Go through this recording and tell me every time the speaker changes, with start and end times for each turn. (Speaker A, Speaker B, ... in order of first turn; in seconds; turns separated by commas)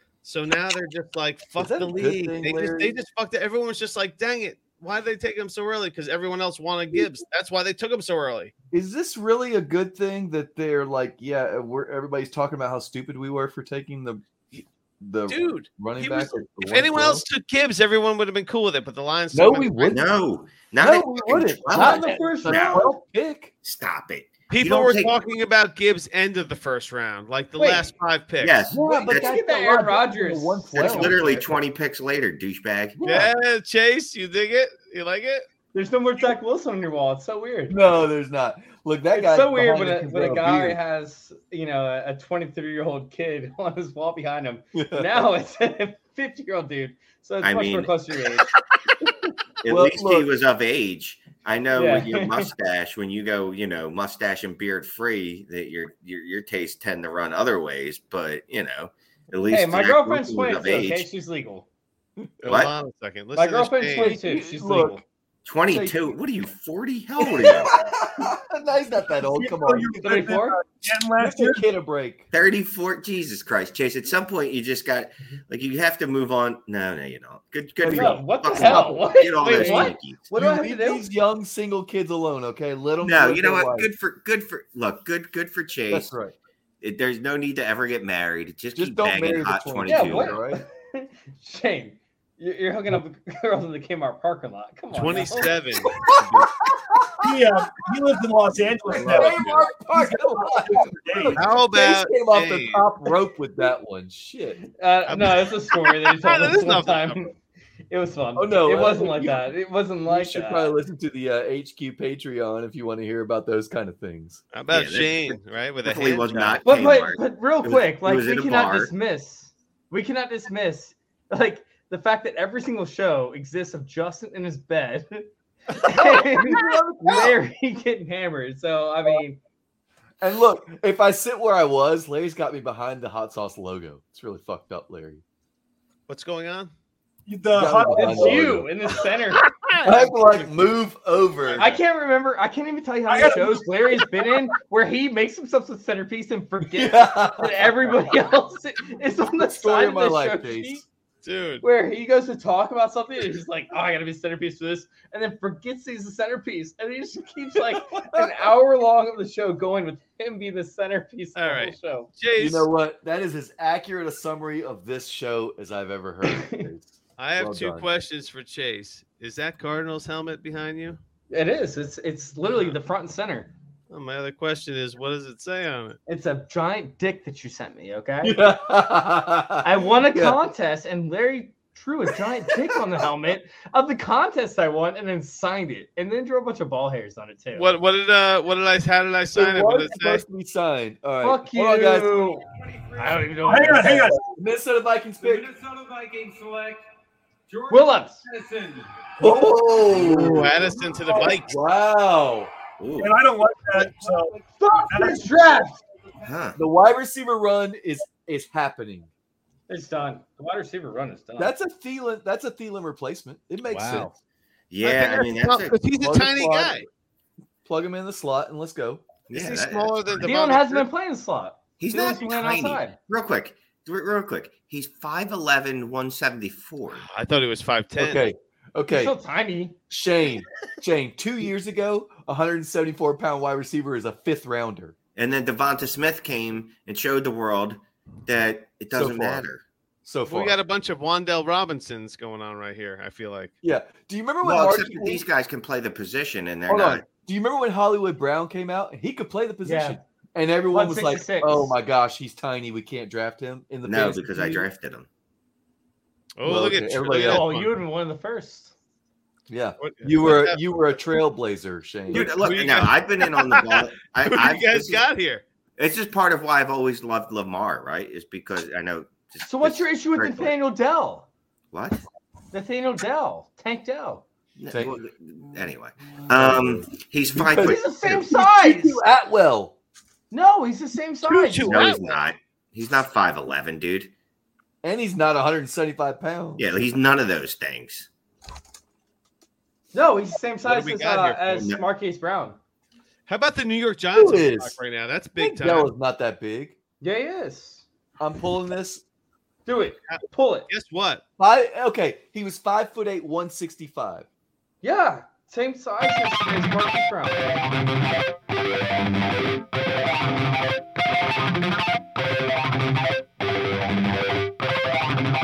Speaker A: 0.2-8.5, Speaker B: 1.6-3.0, Speaker B: 8.7-17.2, Speaker A: 15.3-20.1, Speaker B: 19.3-20.1, Speaker C: 19.9-22.9, Speaker B: 20.8-23.5, Speaker D: 21.6-23.0, Speaker C: 23.6-25.2, Speaker A: 24.5-28.6, Speaker D: 27.6-27.9, Speaker C: 28.4-29.4, Speaker B: 28.7-31.6, Speaker D: 28.8-31.3, Speaker C: 30.7-33.0, Speaker B: 33.0-33.3, Speaker A: 33.0-35.4, Speaker D: 35.7-37.8, Speaker B: 37.7-40.8, Speaker D: 39.1-48.5, Speaker B: 44.7-45.3, Speaker C: 47.4-48.0, Speaker B: 48.5-49.1, Speaker C: 49.6-61.1, Speaker B: 49.6-50.3, Speaker D: 51.7-52.5, Speaker D: 59.4-61.7, Speaker B: 62.2-62.5, Speaker A: 62.4-64.2, Speaker C: 62.5-62.7, Speaker D: 63.3-65.0, Speaker B: 63.9-65.0, Speaker C: 65.4-67.7, Speaker B: 65.7-66.2, Speaker B: 67.2-70.0, Speaker E: 69.3-71.6, Speaker D: 70.0-70.6, Speaker B: 71.2-72.3, Speaker C: 72.3-80.3, Speaker B: 77.8-83.9, Speaker D: 77.8-81.0, Speaker C: 83.0-86.1, Speaker B: 85.9-86.3, Speaker C: 86.8-90.4, Speaker B: 88.8-90.6, Speaker D: 89.8-95.9, Speaker A: 94.9-96.5, Speaker B: 96.0-97.5, Speaker E: 97.2-101.5, Speaker B: 98.8-104.6, Speaker A: 99.1-99.6, Speaker A: 101.3-102.8, Speaker D: 104.6-107.3, Speaker A: 105.1-107.3, Speaker D: 107.9-110.7, Speaker B: 108.3-114.4, Speaker A: 114.5-116.6, Speaker C: 114.7-118.9, Speaker D: 116.6-125.3, Speaker D: 125.8-129.4, Speaker B: 125.8-127.3, Speaker B: 130.2-135.2, Speaker A: 136.1-136.7, Speaker E: 137.3-138.6, Speaker B: 137.5-138.7, Speaker D: 137.9-139.5, Speaker A: 139.3-140.1, Speaker B: 139.8-141.7, Speaker A: 141.4-141.8, Speaker D: 141.6-150.8, Speaker E: 143.1-144.1, Speaker B: 146.6-148.0, Speaker B: 149.2-150.8, Speaker A: 151.2-151.6, Speaker D: 151.6-162.1, Speaker B: 158.1-158.4, Speaker A: 161.3-162.7, Speaker B: 162.4-167.9, Speaker D: 166.2-166.7, Speaker A: 167.2-171.0, Speaker D: 171.3-173.5, Speaker A: 173.9-176.0, Speaker D: 176.1-178.4, Speaker B: 178.2-180.4, Speaker D: 179.6-187.7, Speaker A: 187.5-190.2, Speaker B: 189.3-192.4, Speaker D: 191.2-192.4, Speaker F: 192.4-194.0, Speaker D: 193.0-194.2, Speaker E: 193.4-194.2, Speaker B: 194.1-195.5, Speaker F: 195.2-196.8, Speaker F: 197.5-198.9, Speaker D: 197.7-198.2, Speaker B: 199.2-202.5, Speaker A: 199.9-201.6, Speaker C: 202.8-203.1, Speaker E: 203.0-204.3, Speaker D: 204.4-205.8, Speaker E: 204.9-205.4, Speaker C: 206.2-206.6, Speaker B: 206.6-209.1, Speaker D: 209.7-211.5, Speaker B: 211.4-214.1, Speaker A: 213.7-214.1, Speaker C: 214.7-215.8, Speaker A: 214.8-216.9, Speaker B: 216.0-216.9, Speaker B: 217.6-219.0, Speaker C: 219.3-220.1, Speaker A: 219.3-220.9, Speaker D: 220.1-223.0, Speaker C: 221.8-227.1, Speaker A: 226.9-228.3, Speaker B: 228.0-229.1, Speaker D: 228.9-229.8, Speaker B: 229.9-234.9, Speaker C: 235.2-239.6, Speaker B: 238.9-239.4, Speaker B: 240.0-240.6, Speaker A: 240.3-243.5, Speaker B: 243.6-245.2, Speaker C: 244.4-247.1, Speaker B: 246.7-254.6, Speaker D: 249.6-250.0, Speaker D: 250.7-251.7, Speaker C: 253.8-255.1, Speaker A: 256.4-257.7, Speaker B: 256.4-257.4, Speaker D: 257.2-258.7, Speaker B: 259.5-262.3, Speaker A: 259.8-260.6, Speaker C: 262.1-265.1, Speaker A: 262.1-265.4, Speaker C: 265.8-270.5, Speaker D: 269.4-271.3, Speaker C: 271.7-272.0, Speaker D: 272.5-274.2, Speaker C: 274.6-278.2, Speaker B: 274.7-275.0, Speaker B: 276.3-279.7, Speaker D: 277.6-279.0, Speaker D: 280.3-281.9, Speaker A: 281.2-282.2, Speaker C: 281.6-284.1, Speaker B: 284.8-286.7, Speaker C: 286.6-288.1, Speaker D: 289.9-292.6, Speaker A: 290.6-291.6, Speaker C: 291.6-291.8, Speaker A: 293.3-295.9, Speaker B: 294.1-294.8, Speaker B: 295.4-296.8, Speaker D: 297.0-297.9, Speaker B: 298.2-299.0, Speaker D: 299.6-300.7, Speaker A: 300.1-301.2, Speaker B: 301.4-304.2, Speaker D: 304.8-307.6